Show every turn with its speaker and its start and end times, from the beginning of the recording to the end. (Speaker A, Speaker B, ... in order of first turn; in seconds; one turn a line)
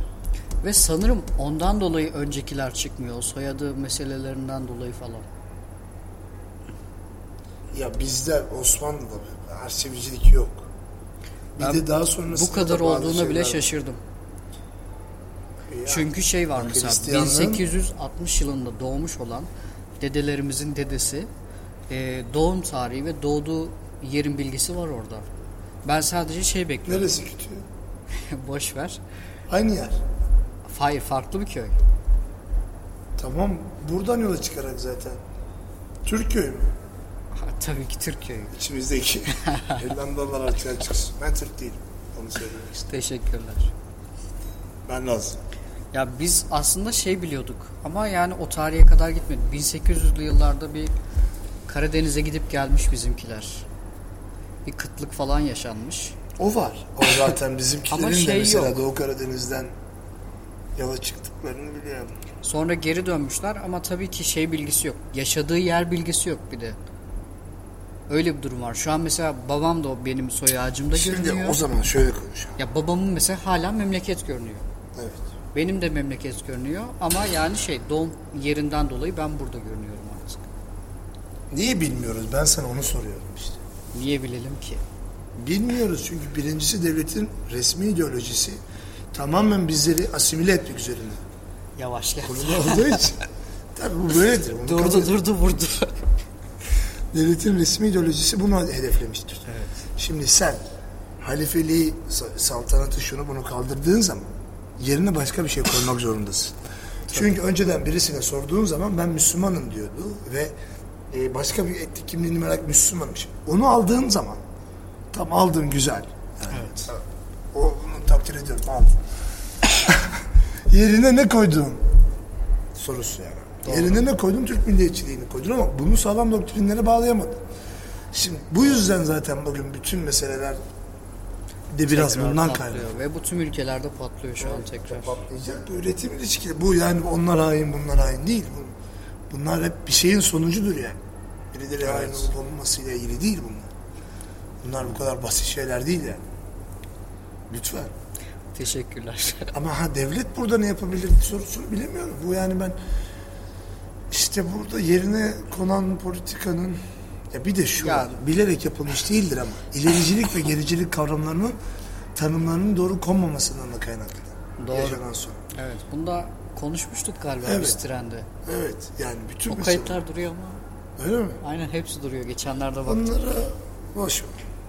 Speaker A: 0.6-5.2
Speaker B: 7.7-10.7
Speaker B: 11.6-13.7
Speaker A: 11.6-14.0
Speaker B: 15.7-17.7
Speaker A: 15.9-19.5
Speaker A: 20.0-21.3
Speaker A: 21.9-25.2
Speaker A: 25.8-27.1
Speaker B: 26.9-27.6
Speaker A: 28.1-29.0
Speaker B: 29.5-30.0
Speaker A: 30.6-31.8
Speaker B: 33.2-35.2
Speaker B: 36.0-36.7
Speaker A: 37.3-38.5
Speaker B: 38.5-42.8
Speaker A: 39.4-39.8
Speaker A: 42.7-43.7
Speaker B: 44.9-45.4
Speaker A: 45.9-50.9
Speaker A: 51.7-53.7
Speaker A: 54.6-56.1
Speaker B: 56.4-59.7
Speaker A: 57.9-58.8
Speaker B: 60.8-62.1
Speaker A: 62.4-66.8
Speaker A: 68.1-71.6
Speaker B: 70.9-72.5
Speaker A: 72.6-74.6
Speaker B: 74.9-75.3
Speaker A: 75.5-80.5
Speaker B: 81.5-83.6
Speaker A: 83.9-84.8
Speaker B: 85.4-88.6
Speaker B: 89.1-91.2
Speaker A: 91.8-93.1
Speaker B: 92.2-93.2
Speaker B: 93.7-95.2
Speaker A: 94.6-96.0
Speaker B: 97.1-100.6
Speaker A: 99.5-99.9
Speaker B: 101.2-106.6
Speaker B: 107.1-110.5
Speaker B: 111.1-114.4
Speaker B: 115.1-117.0
Speaker A: 116.5-116.9
Speaker B: 117.5-119.0
Speaker B: 119.6-121.8
Speaker B: 122.7-127.4
Speaker A: 123.6-124.0
Speaker B: 128.1-130.6
Speaker B: 131.7-132.9
Speaker A: 131.9-135.2
Speaker B: 134.4-138.7
Speaker B: 139.3-141.0
Speaker B: 141.5-143.7
Speaker A: 141.8-142.3
Speaker B: 144.6-146.2
Speaker B: 147.5-147.9
Speaker A: 148.5-149.5
Speaker B: 149.5-152.8
Speaker B: 154.1-156.8
Speaker B: 157.3-161.6
Speaker A: 157.8-158.2
Speaker B: 162.1-165.4
Speaker A: 164.6-165.0
Speaker A: 165.5-168.3
Speaker B: 167.4-167.8
Speaker B: 168.4-170.0
Speaker A: 169.5-170.6
Speaker B: 171.0-171.4
Speaker A: 171.4-173.1
Speaker B: 172.8-174.3